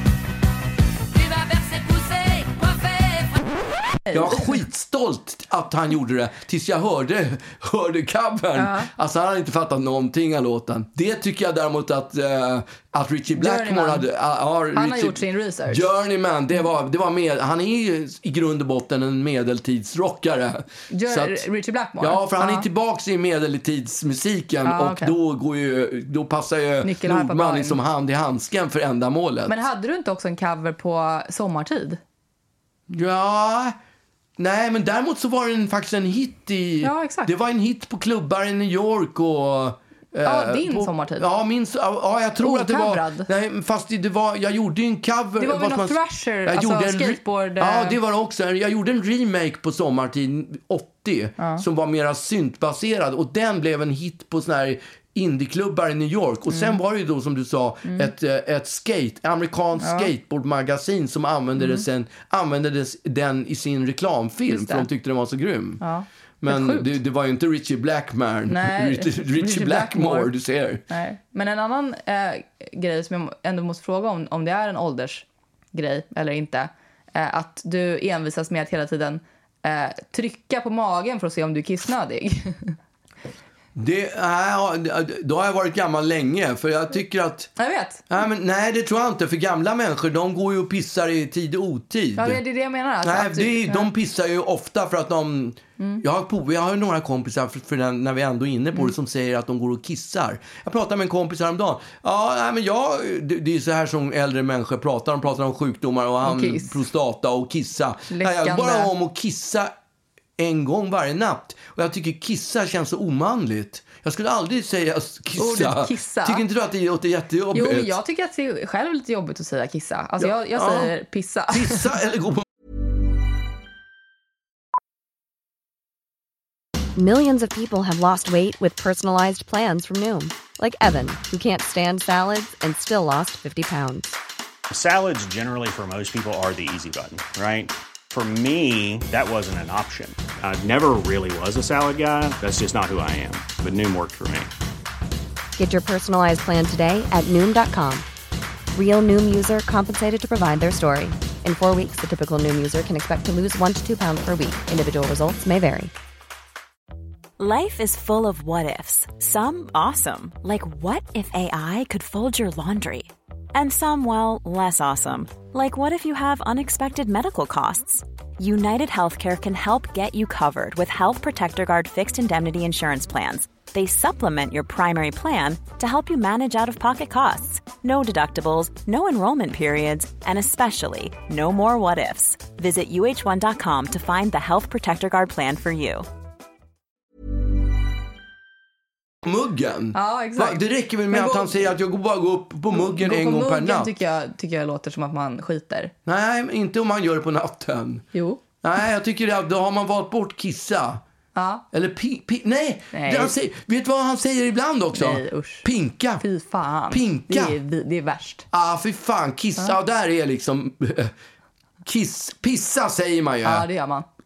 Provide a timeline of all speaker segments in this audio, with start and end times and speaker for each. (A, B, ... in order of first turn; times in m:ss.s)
0:01.2-0:03.4 A
0:04.1-0:04.6 B
0:04.1-0:21.4 C
0:08.6-0:08.9 B
0:13.3-0:14.1 B
0:14.7-0:15.9 B
0:20.9-0:22.7 B
0:22.0-0:29.5 C
0:24.6-0:25.1 B
0:26.8-0:27.8 B
0:29.5-0:32.0 B
0:32.9-0:33.8 C
0:34.4-1:05.8 C
0:36.8-0:37.3 B
0:40.2-0:41.3 B
0:42.4-0:43.3 B
0:45.4-0:48.0 B
0:51.4-0:51.6 B
0:56.5-0:56.8 B
0:57.8-0:58.1 B
0:59.8-1:00.1 B
1:01.6-1:01.8 B
1:04.5-1:04.9 B
1:05.8-1:06.9 B
1:06.4-1:10.8 C
1:08.5-1:10.3 B
1:10.9-1:22.8 B
1:23.7-1:27.5 C
1:27.6-1:28.0 B
1:28.1-1:32.4 C
1:32.2-1:33.9 B
1:33.0-1:49.7 C
1:46.2-1:46.8 B
1:48.1-1:48.9 B
1:50.4-1:58.0 C
1:55.4-1:56.4 B
1:57.5-2:01.9 B
2:00.2-2:00.9 C
2:01.5-2:02.4 C
2:07.0-2:14.2 D
2:14.7-2:24.5 E
2:25.6-2:28.1 D
2:28.7-2:35.9 D
2:37.4-3:06.0 F
3:09.2-3:13.9 C
3:09.9-3:11.7 B
3:12.7-3:15.9 B
3:16.0-3:18.0 C
3:18.1-3:18.4 B
3:18.6-3:21.0 C
3:21.3-3:21.6 B
3:21.7-3:26.2 C
3:22.9-3:23.4 B
3:24.9-3:25.7 B
3:26.2-3:28.4 B
3:26.9-3:27.6 C
3:28.5-3:31.1 C
3:31.8-3:33.6 C
3:33.4-3:34.0 B